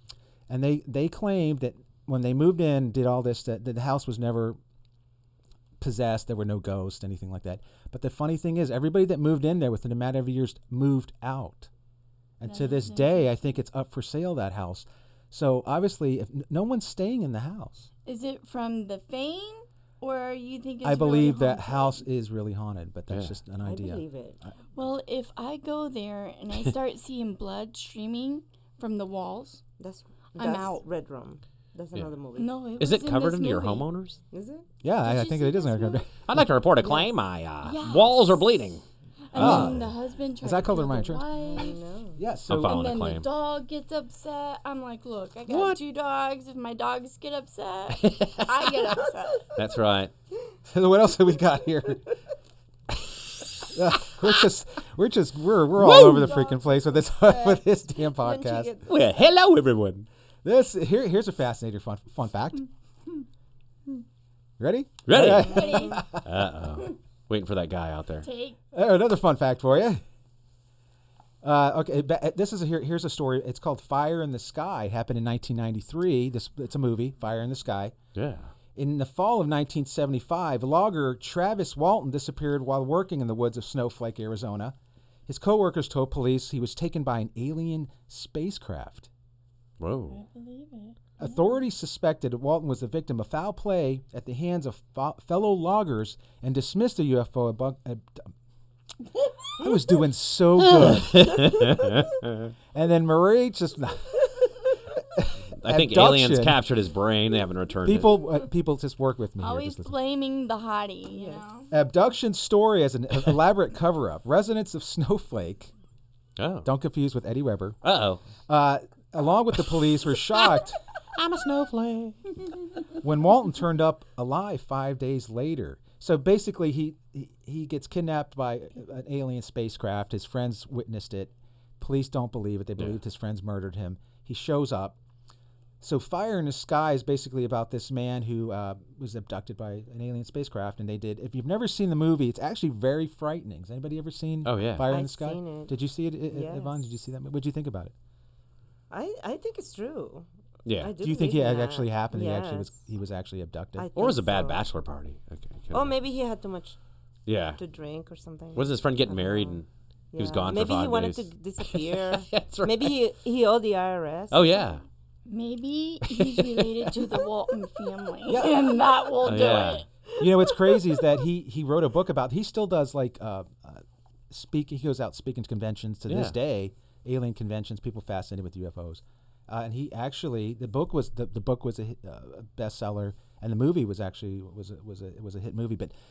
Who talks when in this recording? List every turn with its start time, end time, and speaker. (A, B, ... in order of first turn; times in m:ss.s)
0:00.5-0:04.6 A
0:05.8-0:11.7 A
0:12.4-0:17.9 A
0:12.4-0:13.3 B
0:18.0-0:22.0 B
0:20.8-0:24.5 A
0:23.1-0:23.4 C
0:23.6-0:24.4 D
0:24.8-0:29.6 B
0:29.8-0:32.5 D
0:30.4-0:30.8 B
0:32.4-0:33.8 B
0:32.8-0:34.2 C
0:34.3-0:34.7 D
0:34.8-0:36.4 A
0:35.0-0:36.1 B
0:36.3-0:38.8 C
0:36.8-0:37.1 D
0:37.6-0:38.7 B
0:39.3-0:41.8 B
0:39.3-0:39.8 C
0:39.3-0:41.3 A
0:41.4-0:42.2 D
0:42.2-0:42.9 A
0:42.5-0:43.3 C
0:42.6-0:49.5 B
0:45.5-0:45.8 C
0:48.0-0:48.8 C
0:49.5-0:50.1 C
0:50.7-0:52.1 A
0:53.7-0:58.7 A
0:55.9-0:56.7 B
0:58.2-0:58.9 D
0:58.8-1:00.1 C
1:00.4-1:02.7 A
1:04.6-1:06.6 A
1:05.1-1:08.3 C
1:05.4-1:06.0 B
1:08.2-1:08.6 B
1:08.7-1:10.0 A
1:11.4-1:18.0 A
1:18.1-1:18.5 C
1:18.7-1:24.8 A
1:25.3-1:29.1 A
1:29.8-1:30.2 C
1:30.1-1:30.9 B
1:31.2-1:38.3 A
1:39.6-1:41.6 A
1:40.6-1:42.5 C
1:42.7-1:46.6 A
1:45.6-1:48.1 C
1:47.8-1:49.9 A
1:49.4-1:51.7 B
1:51.1-1:51.4 D
1:51.7-1:55.7 A
1:56.4-1:56.7 C
1:56.6-1:57.8 A
1:57.8-1:58.2 C
1:58.5-2:00.8 A
2:01.1-2:02.3 C
2:03.0-2:15.0 A
2:15.8-2:27.9 A
2:24.4-2:24.9 C
2:24.8-2:25.7 D
2:26.3-2:26.8 D
2:28.9-2:30.3 D
2:30.6-2:30.9 C
2:30.8-2:32.8 D
2:31.0-2:33.9 A
2:33.8-2:34.6 D
2:33.9-2:35.9 C
2:35.7-2:36.8 D
2:37.3-2:37.6 C
2:37.6-2:44.8 D
2:38.5-2:43.0 C
2:44.3-2:44.8 C
2:45.3-2:49.9 B
2:46.0-2:47.0 C
2:48.3-2:48.8 A
2:49.2-2:49.8 C
2:50.2-3:05.9 A
2:56.1-2:56.4 C